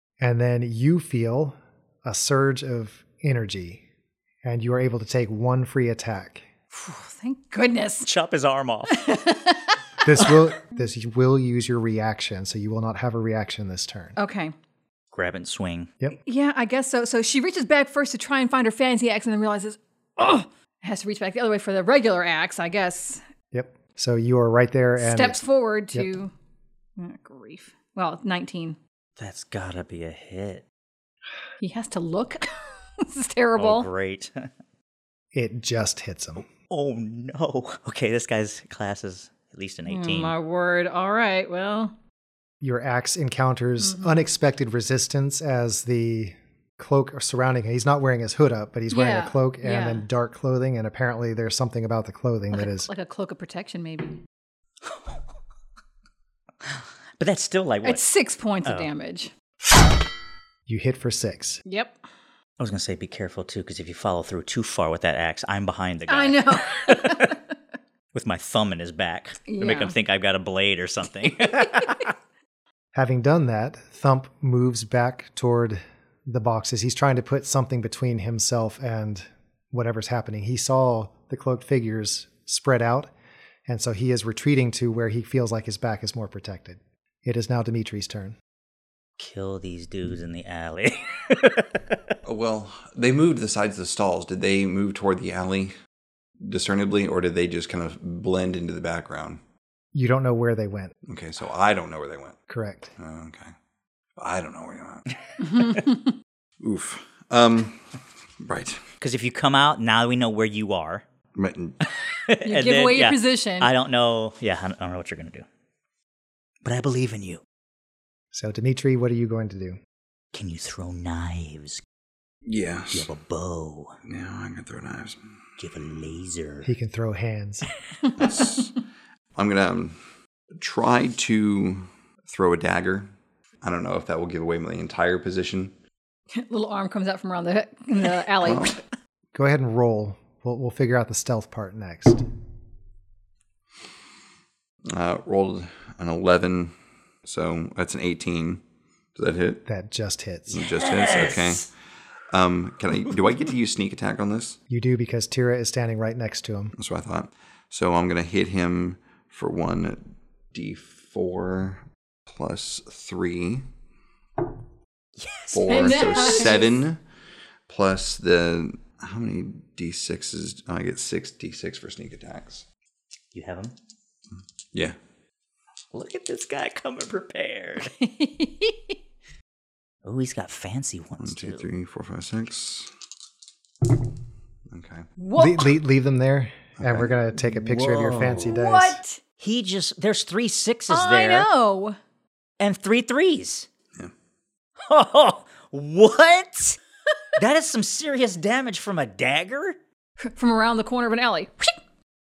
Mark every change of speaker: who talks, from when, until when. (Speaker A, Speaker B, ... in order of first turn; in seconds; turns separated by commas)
Speaker A: 0.2-3.8, Speaker A: 4.4-6.5, Speaker B: 6.7-8.1, Speaker C: 8.0-8.9, Speaker B: 8.9-10.4, Speaker A: 10.0-14.1, Speaker B: 14.2-14.5, Speaker C: 15.1-15.9, Speaker B: 16.2-23.2, Speaker A: 23.5-25.4, Speaker B: 25.0-26.3, Speaker B: 27.0-28.8, Speaker C: 29.2-30.6, Speaker B: 31.6-33.9, Speaker C: 33.5-34.5, Speaker A: 35.3-36.5, Speaker C: 36.7-40.3, Speaker B: 39.9-41.9, Speaker A: 42.6-52.9, Speaker B: 43.8-44.2, Speaker B: 48.9-50.0, Speaker B: 52.5-54.2, Speaker C: 57.2-58.0, Speaker B: 57.8-59.3, Speaker A: 60.7-61.6, Speaker B: 61.6-62.0, Speaker C: 62.6-67.3, Speaker B: 66.1-67.3, Speaker C: 68.1-72.1, Speaker B: 69.5-69.9, Speaker A: 72.9-83.1, Speaker A: 83.7-88.3, Speaker C: 89.2-92.0, Speaker D: 92.2-95.7, Speaker D: 96.4-99.4, Speaker A: 99.9-100.9, Speaker D: 101.1-102.4, Speaker A: 102.5-102.9, Speaker D: 103.0-103.5, Speaker D: 104.2-105.0, Speaker C: 105.4-105.8, Speaker B: 105.4-106.0, Speaker D: 106.6-107.8, Speaker D: 108.4-108.8, Speaker C: 109.0-111.0, Speaker D: 111.3-111.8, Speaker C: 112.2-115.4, Speaker B: 112.4-113.7, Speaker C: 116.6-117.4, Speaker A: 118.3-119.8, Speaker C: 120.3-121.8, Speaker D: 122.4-123.1, Speaker C: 122.9-124.0, Speaker D: 124.0-125.2, Speaker C: 125.6-126.7, Speaker A: 126.6-127.7, Speaker D: 128.2-128.8, Speaker D: 129.3-129.9, Speaker D: 130.5-133.1, Speaker D: 133.6-135.7, Speaker B: 136.3-138.8, Speaker D: 138.4-138.7, Speaker A: 139.3-142.2, Speaker D: 144.9-146.7, Speaker D: 147.2-148.6, Speaker D: 149.2-149.6, Speaker A: 149.7-150.6, Speaker D: 150.5-151.7, Speaker C: 150.8-151.5, Speaker D: 152.3-154.6, Speaker A: 154.7-156.7, Speaker D: 156.8-163.7, Speaker C: 165.2-166.4, Speaker D: 165.5-167.0, Speaker B: 165.6-166.7, Speaker D: 167.7-172.6, Speaker C: 173.3-173.7, Speaker C: 175.9-177.9, Speaker B: 178.0-178.9, Speaker C: 180.0-181.7, Speaker D: 181.2-182.9, Speaker D: 184.7-185.1, Speaker B: 185.2-185.7, Speaker A: 185.3-189.0, Speaker D: 186.8-187.1, Speaker C: 187.6-188.5, Speaker B: 188.4-189.2, Speaker C: 189.4-191.5, Speaker B: 190.9-192.0, Speaker C: 192.6-193.7, Speaker C: 194.9-196.8, Speaker C: 197.4-199.8, Speaker B: 200.2-201.7